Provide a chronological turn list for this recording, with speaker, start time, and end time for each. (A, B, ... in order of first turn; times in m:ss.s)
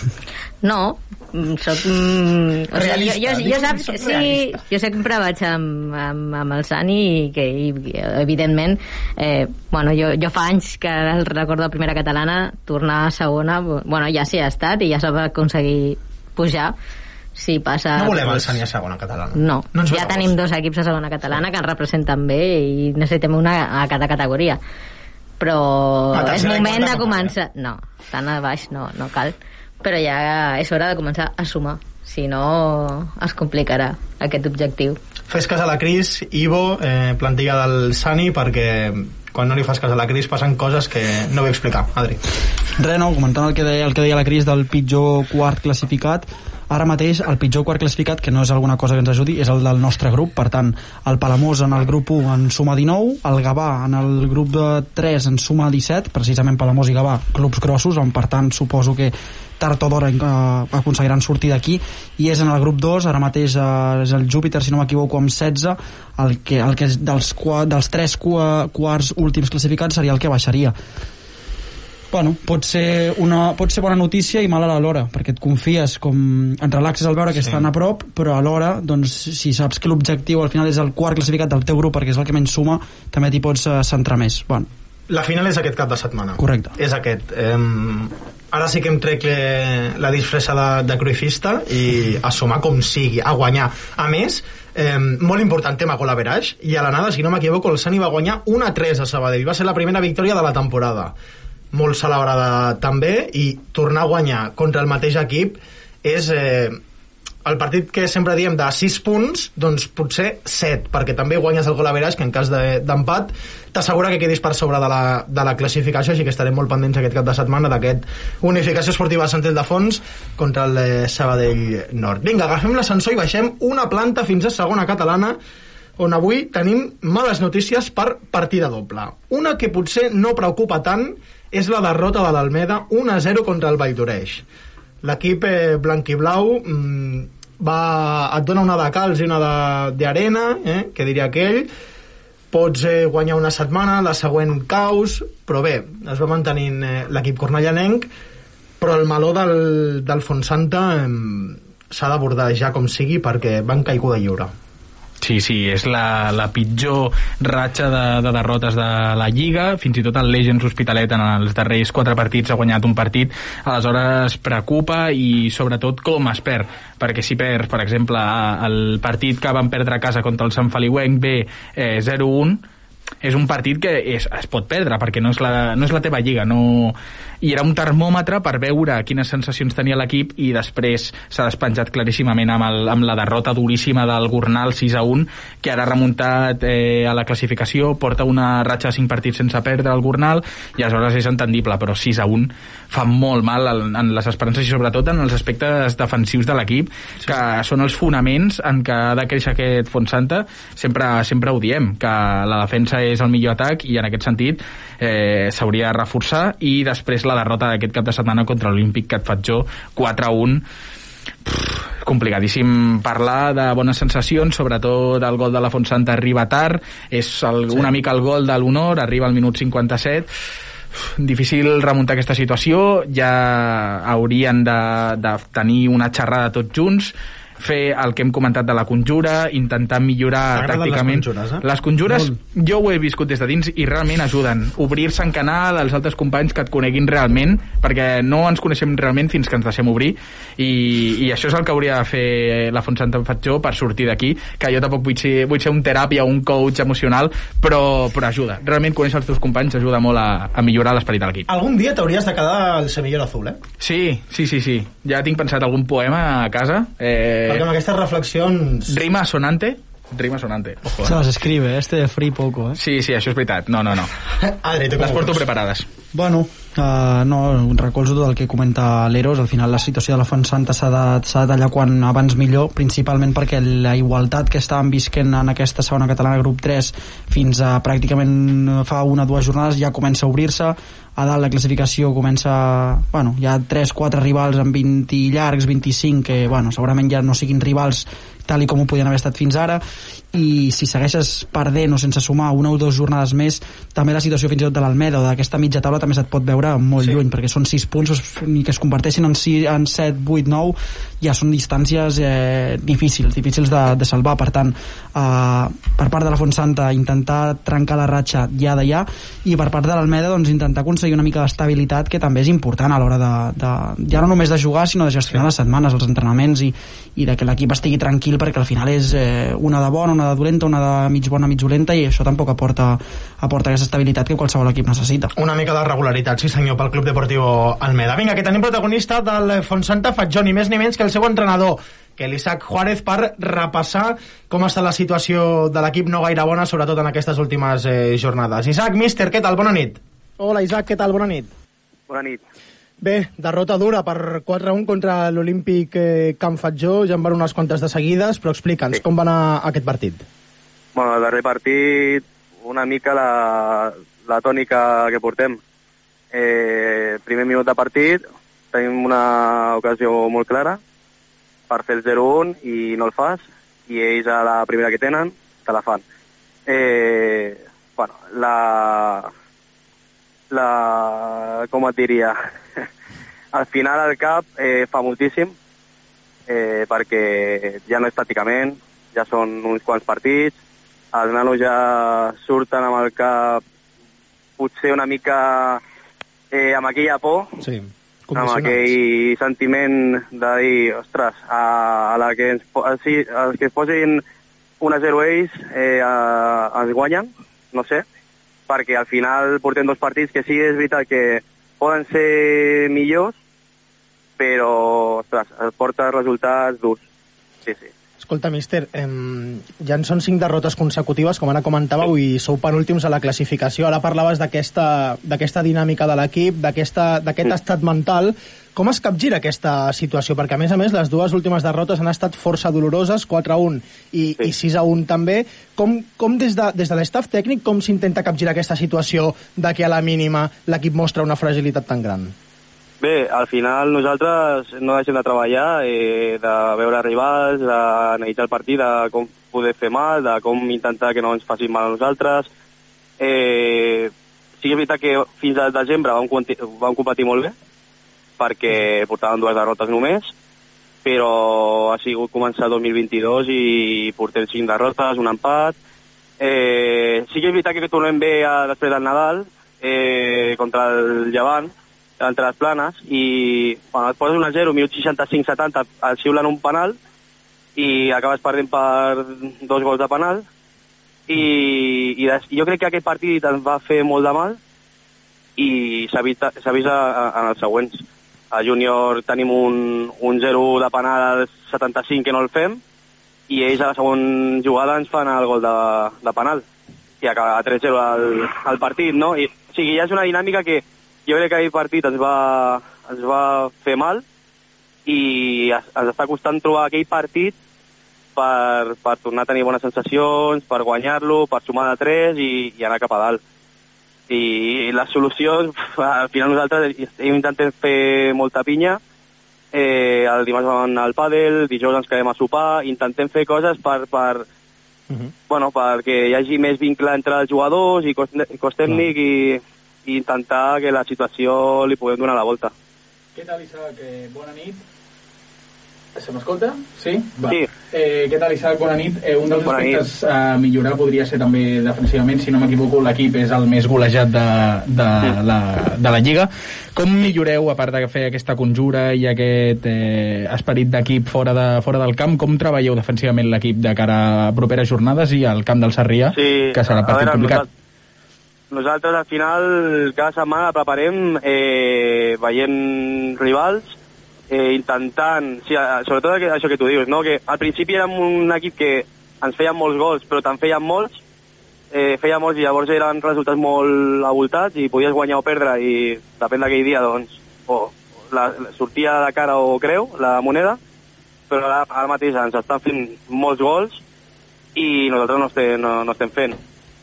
0:00.6-0:16.7 A
0:02.7-0:04.6 B
0:17.4-0:18.6 A
0:18.0-0:20.3 B
0:19.4-0:24.6 A
0:25.4-0:35.0 A
0:26.1-0:27.3 B
0:35.3-0:42.2 B
0:42.8-1:10.8 C
1:12.1-1:24.7 C
1:17.4-1:17.6 B
1:25.1-1:41.1 B
1:26.4-1:26.8 C
1:41.7-1:46.8 B
1:47.4-2:05.4 B
2:06.0-2:14.4 B
2:15.0-2:21.7 B
2:22.5-2:28.1 B
2:28.8-2:34.5 B
2:35.2-2:52.6 D
2:53.2-3:30.6 D
3:31.4-3:40.3 D
3:41.2-4:11.5 D
3:50.5-3:52.3 B
4:11.5-4:13.6 B
4:13.8-4:17.7 D
4:17.5-4:18.9 B
4:18.9-4:21.2 D
4:21.0-4:22.8 C
4:22.8-4:24.1 D
4:24.4-4:25.4 B
4:25.0-4:25.9 D
4:26.1-4:49.8 C
4:50.3-5:25.3 C
5:25.4-5:41.5 B
5:42.1-5:42.4 E
5:43.0-5:50.2 B
5:51.0-5:55.6 E
5:56.3-6:00.8 E
6:01.7-6:06.0 E
6:06.7-6:09.3 E
6:10.5-6:12.8 E
6:13.5-6:15.6 E
6:16.5-6:20.6 E
6:21.1-6:23.6 E
6:24.6-6:25.8 E
6:26.5-6:27.6 E
6:27.6-6:29.0 B
6:28.4-6:34.2 E
6:34.8-6:38.0 E
6:38.7-6:43.4 E
6:44.4-6:47.0 E
6:47.7-6:47.9 E
6:48.2-7:12.3 B
7:13.0-7:22.5 E
7:23.2-7:27.5 E
7:28.4-7:30.3 E
7:31.0-7:35.8 E
7:36.4-7:47.0 E
7:47.8-7:50.4 E
7:51.3-7:54.6 E
7:55.6-8:02.8 E
8:03.5-8:06.6 E
8:07.2-8:14.2 E
8:15.1-8:17.6 E
8:18.4-8:23.4 E
8:24.3-8:29.0 E
8:29.7-8:34.5 E
8:35.5-8:42.7 E
8:43.4-8:44.8 D
8:46.2-9:07.6 D
8:49.6-8:50.0 E
9:06.3-9:07.7 E
9:08.7-9:13.9 E
9:14.5-9:21.2 E
9:21.9-9:30.8 E
9:31.5-9:34.0 E
9:34.8-9:36.6 E